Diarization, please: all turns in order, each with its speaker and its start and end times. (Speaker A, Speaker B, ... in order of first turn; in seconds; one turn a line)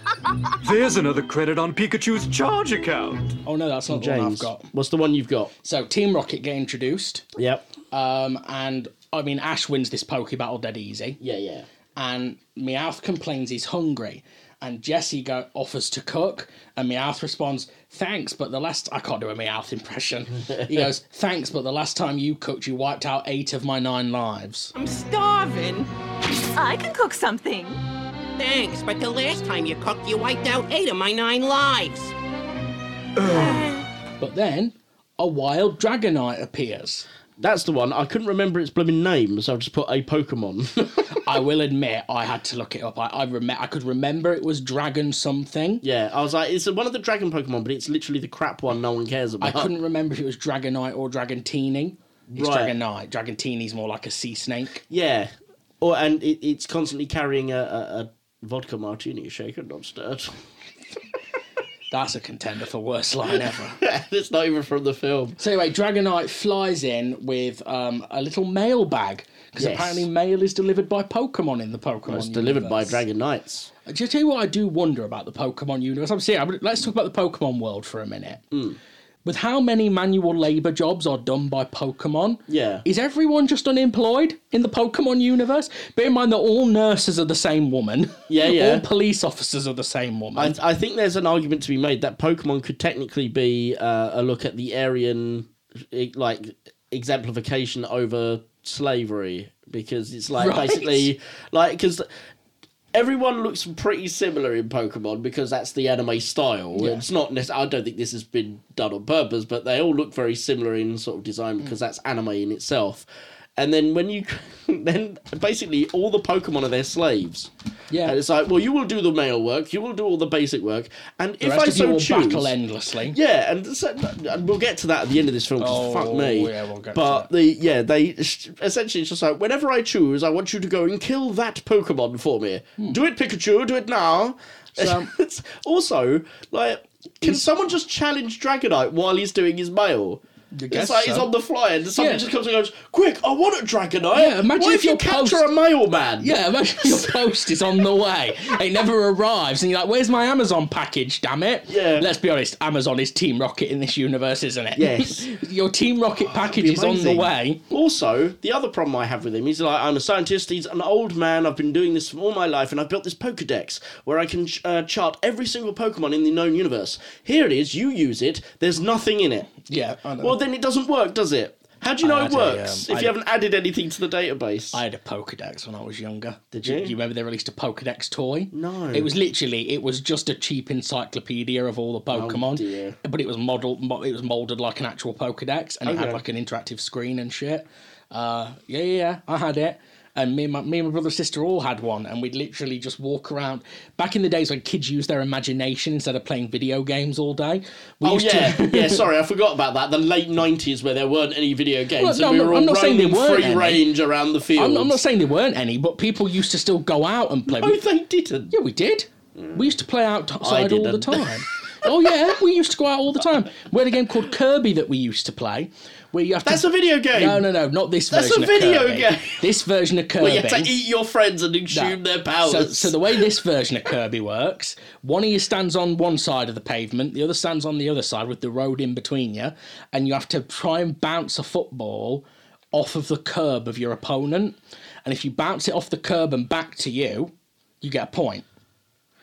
Speaker A: 0.6-3.4
Speaker B: 3.4-4.7
Speaker C: 3.9-5.5
Speaker B: 5.6-7.2
Speaker C: 7.4-7.6
Speaker B: 7.9-11.2
Speaker C: 11.2-11.7
Speaker B: 11.9-24.7
Speaker C: 20.5-20.8
Speaker D: 24.7-25.9
Speaker D: 28.4-32.1
Speaker D: 33.2-33.9
Speaker B: 34.2-37.1
Speaker C: 37.4-41.2
Speaker B: 41.1-45.8
Speaker C: 45.8-49.7
Speaker B: 49.4-54.8
Speaker C: 52.3-52.7
Speaker C: 54.9-60.3
Speaker B: 61.9-63.8
Speaker C: 63.8-65.4
Speaker B: 65.4-73.0
Speaker C: 69.6-70.1
Speaker C: 72.1-73.7
Speaker B: 73.8-78.4
Speaker C: 78.5-78.8
Speaker B: 79.2-90.6
Speaker C: 82.5-82.8
Speaker C: 88.3-88.8
Speaker C: 90.3-102.1
Speaker B: 100.4-101.1
Speaker C: 102.9-117.5
Speaker B: 106.7-107.0
Speaker B: 117.9-118.2
Speaker C: 118.0-122.5
Speaker B: 121.4-123.2
Speaker C: 123.1-147.2
Speaker B: 125.6-127.3
Speaker B: 134.8-135.1
Speaker B: 137.2-137.5
Speaker B: 140.5-141.3
Speaker B: 141.9-142.3
Speaker B: 144.1-145.4
Speaker B: 146.2-157.6
Speaker C: 151.7-152.1
Speaker C: 154.8-155.3
Speaker C: 156.3-169.6
Speaker B: 169.6-170.4
Speaker C: 170.2-174.8
Speaker B: 172.0-173.1
Speaker B: 174.7-199.1
Speaker C: 176.5-176.9
Speaker C: 178.5-179.1
Speaker C: 182.1-183.0
Speaker C: 185.8-186.2
Speaker C: 198.0-205.0
Speaker B: 201.9-203.8
Speaker B: 204.6-207.8
Speaker C: 207.5-208.5
Speaker B: 208.5-220.7
Speaker C: 210.4-212.1
Speaker C: 216.4-217.5
Speaker C: 218.1-219.4
Speaker C: 220.2-223.3
Speaker B: 221.7-238.4